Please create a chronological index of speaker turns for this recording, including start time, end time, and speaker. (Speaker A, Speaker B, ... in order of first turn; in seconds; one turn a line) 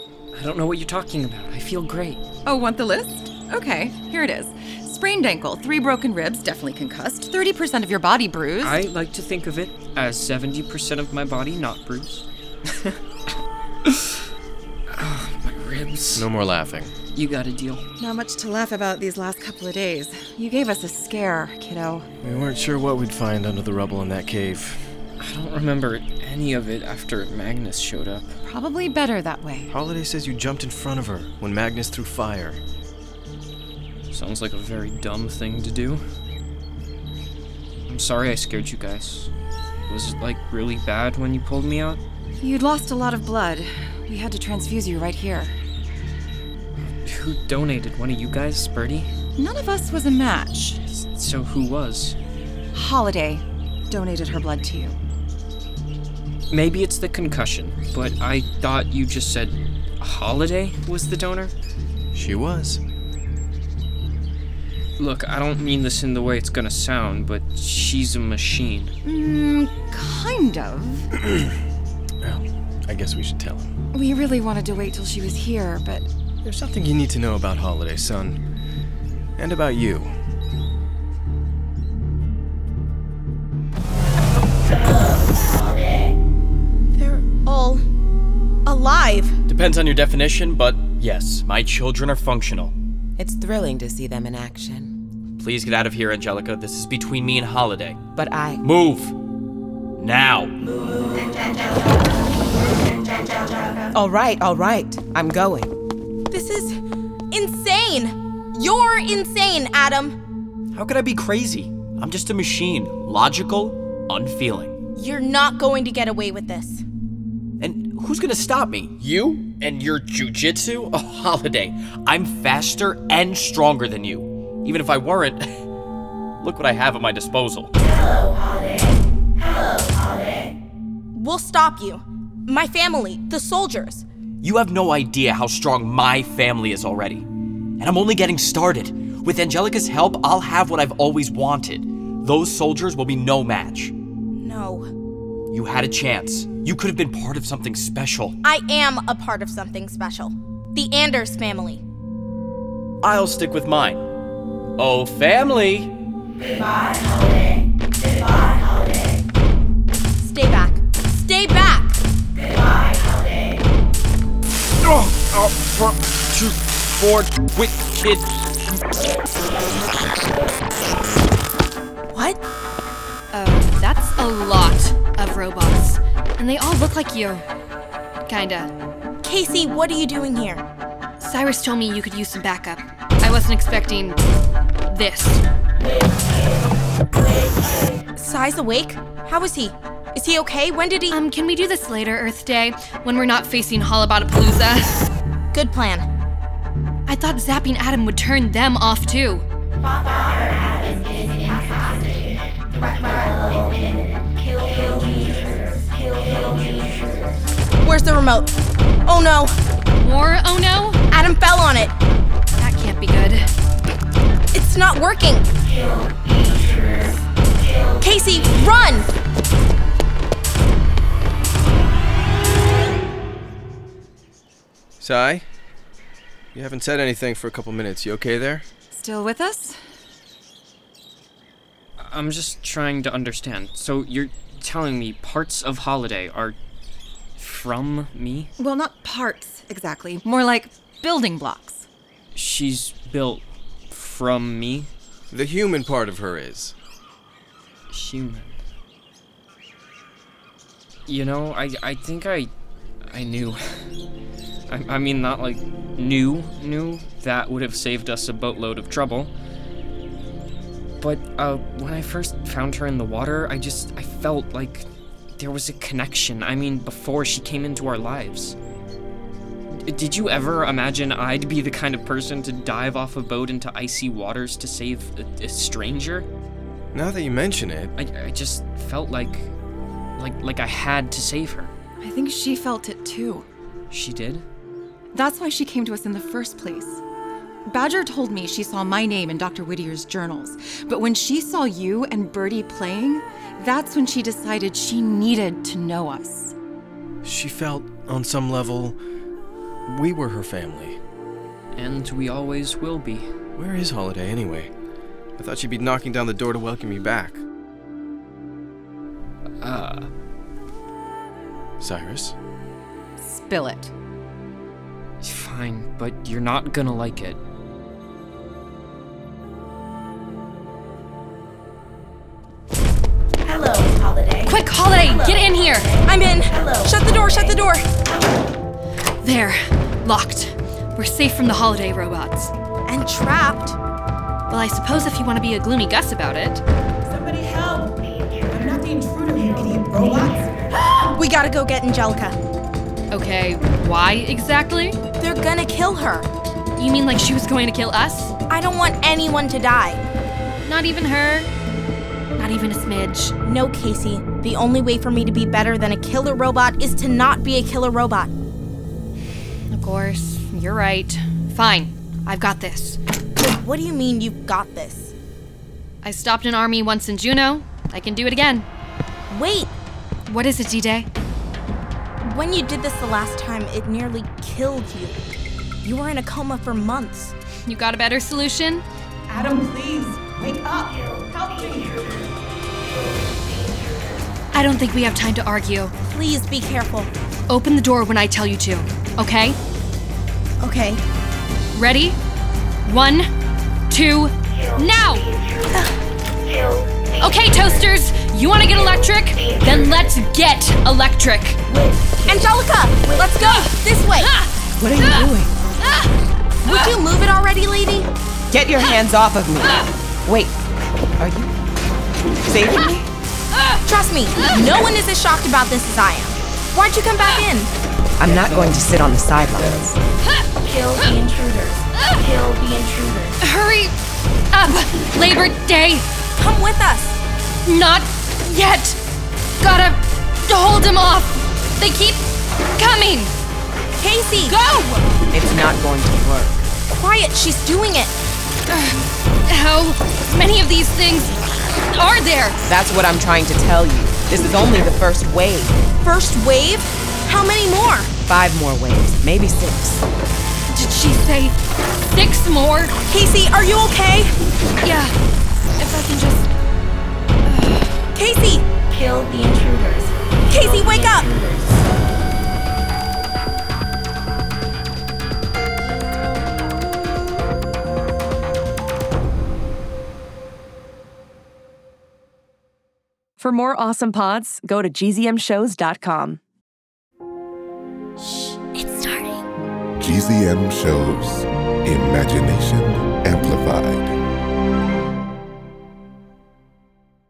Speaker A: 0.3-2.2
Speaker B: 2.4-8.8
Speaker A: 8.6-12.2
Speaker A: 14.9-16.3
Speaker C: 16.1-16.9
Speaker A: 17.1-17.8
Speaker B: 18.0-22.1
Speaker C: 22.2-24.9
Speaker A: 25.2-28.3
Speaker B: 28.4-29.7
Speaker C: 29.7-32.6
Speaker A: 34.1-36.0
Speaker A: 37.9-39.3
Speaker A: 39.9-42.0
Speaker B: 42.4-45.5
Speaker A: 46.8-49.1
Speaker B: 49.4-50.8
Speaker A: 50.9-52.2
Speaker B: 52.7-55.0
Speaker A: 56.5-61.5
Speaker C: 62.1-62.8
Speaker A: 65.0-68.9
Speaker B: 69.0-71.1
Speaker C: 72.2-73.7
Speaker B: 73.9-76.1
Speaker C: 76.4-78.4
Speaker C: 79.4-80.1
Speaker D: 87.0-87.8
Speaker D: 88.7-89.4
Speaker E: 89.5-92.7
Speaker F: 93.2-94.9
Speaker E: 95.4-98.0
Speaker F: 98.1-98.6
Speaker E: 98.6-99.1
Speaker E: 100.0-100.5
Speaker F: 103.9-105.7
Speaker D: 106.3-106.8
Speaker D: 107.3-110.1
Speaker E: 110.7-114.8
Speaker D: 114.9-116.8
Speaker E: 117.6-125.4
Speaker E: 126.4-127.7
Speaker D: 131.1-134.0
Speaker E: 134.4-137.2
Speaker E: 137.8-143.9
Speaker D: 144.4-144.8
Speaker E: 145.5-148.4
Speaker D: 148.4-151.8
Speaker E: 153.0-154.0
Speaker E: 154.8-155.9
Speaker D: 160.2-161.9
Speaker E: 164.8-169.1
Speaker D: 172.1-172.4
Speaker G: 173.3-177.4
Speaker G: 178.3-178.7
Speaker D: 179.2-180.6
Speaker G: 181.2-184.2
Speaker G: 184.8-185.4
Speaker D: 188.2-191.2
Speaker G: 191.1-195.0
Speaker D: 195.5-196.1
Speaker G: 197.1-199.4
Speaker D: 200.6-201.0
Speaker D: 203.0-203.8
Speaker D: 207.8-208.5
Speaker D: 209.1-209.5
Speaker G: 210.0-211.0
Speaker D: 211.1-211.9
Speaker G: 212.6-213.5
Speaker D: 214.5-215.5
Speaker D: 218.0-219.1
Speaker C: 225.0-225.4
Speaker C: 226.5-228.7
Speaker B: 228.9-229.8
Speaker A: 232.0-236.6
Speaker A: 237.4-238.5
Speaker B: 238.6-241.8
Speaker A: 242.3-244.9
Speaker C: 245.3-246.7
Speaker A: 247.9-248.6
Speaker A: 251.1-252.5
Speaker A: 253.1-253.6
Speaker A: 254.7-259.3
Speaker A: 261.0-268.6
Speaker A: 269.8-276.3
Speaker C: 276.9-277.9
Speaker A: 277.9-279.5
Speaker A: 280.2-281.7
Speaker B: 282.0-283.4
Speaker A: 283.9-284.4
Speaker B: 285.1-287.0
Speaker B: 287.6-296.5
Speaker C: 297.2-299.0
Speaker C: 299.9-301.0
Speaker A: 301.7-303.3
Speaker C: 303.6-304.7
Speaker C: 305.4-307.4
Speaker A: 309.6-310.1
Speaker C: 311.8-312.3
Speaker B: 313.2-313.9
Speaker A: 315.2-317.4
Speaker D: 323.5-323.9
Speaker G: 324.4-325.9
Speaker D: 325.0-327.8
Speaker G: 329.2-332.5
Speaker D: 332.9-333.8
Speaker G: 334.5-336.6
Speaker H: 337.1-337.9
Speaker H: 338.5-340.5
Speaker D: 341.1-342.4
Speaker G: 343.1-345.0
Speaker D: 345.2-346.3
Speaker G: 346.8-348.3
Speaker D: 348.5-350.1
Speaker G: 350.6-351.5
Speaker G: 352.4-353.4
Speaker D: 353.4-358.3
Speaker G: 359.7-363.0
Speaker D: 363.4-365.1
Speaker G: 366.0-368.6
Speaker D: 369.3-369.7
Speaker G: 370.3-371.1
Speaker D: 372.2-375.2
Speaker D: 375.8-377.3
Speaker G: 377.6-378.8
Speaker H: 379.4-380.9
Speaker H: 381.6-381.9
Speaker G: 384.5-385.9
Speaker D: 386.1-387.1
Speaker G: 387.5-389.6
Speaker D: 390.6-391.0
Speaker G: 391.7-392.2
Speaker G: 392.8-393.3
Speaker G: 393.9-395.3
Speaker G: 397.2-401.6
Speaker D: 402.3-404.3
Speaker G: 403.5-404.5
Speaker F: 404.8-405.5
Speaker D: 406.6-408.1
Speaker F: 408.5-410.6
Speaker F: 411.2-411.5
Speaker F: 412.4-413.0
Speaker D: 413.9-417.7
Speaker F: 418.2-420.0
Speaker G: 423.4-423.9
Speaker G: 424.5-426.1
Speaker D: 426.4-427.2
Speaker G: 427.6-429.0
Speaker G: 429.6-433.3
Speaker D: 434.0-434.6
Speaker G: 434.4-435.1
Speaker F: 435.3-436.6
Speaker D: 436.9-438.1
Speaker G: 438.7-442.6
Speaker F: 442.6-445.8
Speaker D: 446.0-448.1
Speaker F: 448.2-450.1
Speaker G: 450.7-451.6
Speaker G: 452.1-452.9
Speaker D: 453.1-454.3
Speaker G: 454.8-455.1
Speaker B: 455.7-456.5
Speaker B: 457.4-457.9
Speaker D: 458.1-458.8
Speaker D: 460.0-461.5
Speaker I: 473.4-476.4
Speaker J: 480.0-484.1